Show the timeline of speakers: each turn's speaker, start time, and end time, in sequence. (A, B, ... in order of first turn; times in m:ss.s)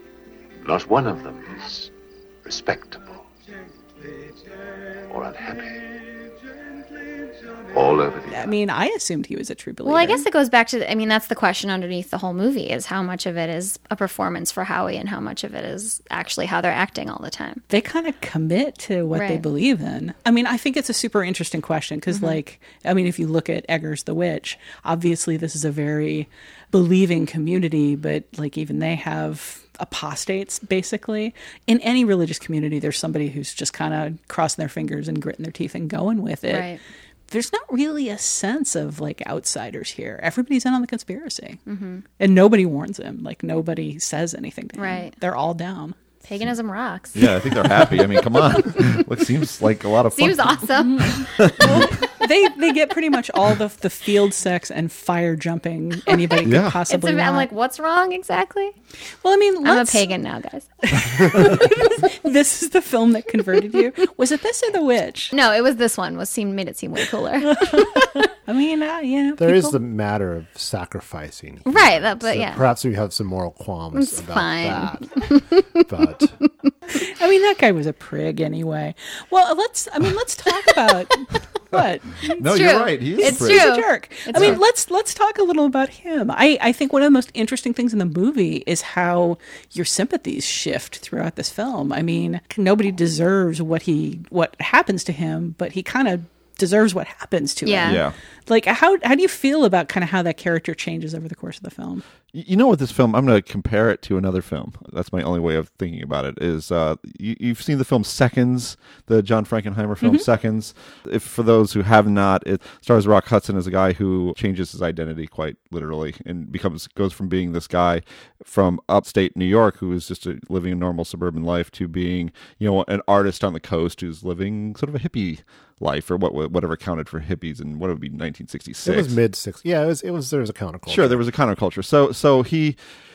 0:00.6-0:01.9 A
0:02.4-0:03.3 A
0:05.1-0:06.1 A
0:07.4-0:08.6 A
0:08.3-0:10.2 B
0:09.8-0:17.6 C
0:17.7-0:36.7 B
0:19.1-0:19.4 C
0:22.1-0:22.4 C
0:36.5-0:36.8 C
0:37.3-0:41.6 B
0:41.6-0:42.0 C
0:42.2-0:45.9 B
0:44.8-0:45.1 C
0:46.2-0:49.0 C
0:47.1-0:50.7 D
0:50.1-0:51.9 C
0:50.8-0:57.5 B
0:51.2-0:51.9 D
0:56.4-0:56.8 D
0:56.9-0:58.7 C
0:59.2-1:00.0 B
0:59.6-1:01.6 C
1:00.8-1:05.3 B
1:05.3-1:08.0 C
1:07.4-1:09.7 B
1:09.4-1:16.4 E
1:11.6-1:12.6 C
1:13.9-1:15.7 C
1:16.9-1:22.4 B
1:22.4-1:23.7 D
1:22.4-1:24.6 C
1:23.1-1:42.0 B
1:24.3-1:24.6 D
1:37.6-1:38.0 C
1:37.8-1:38.1 D
1:42.3-2:09.2 D
2:08.8-2:11.2 E
2:10.9-2:12.8 D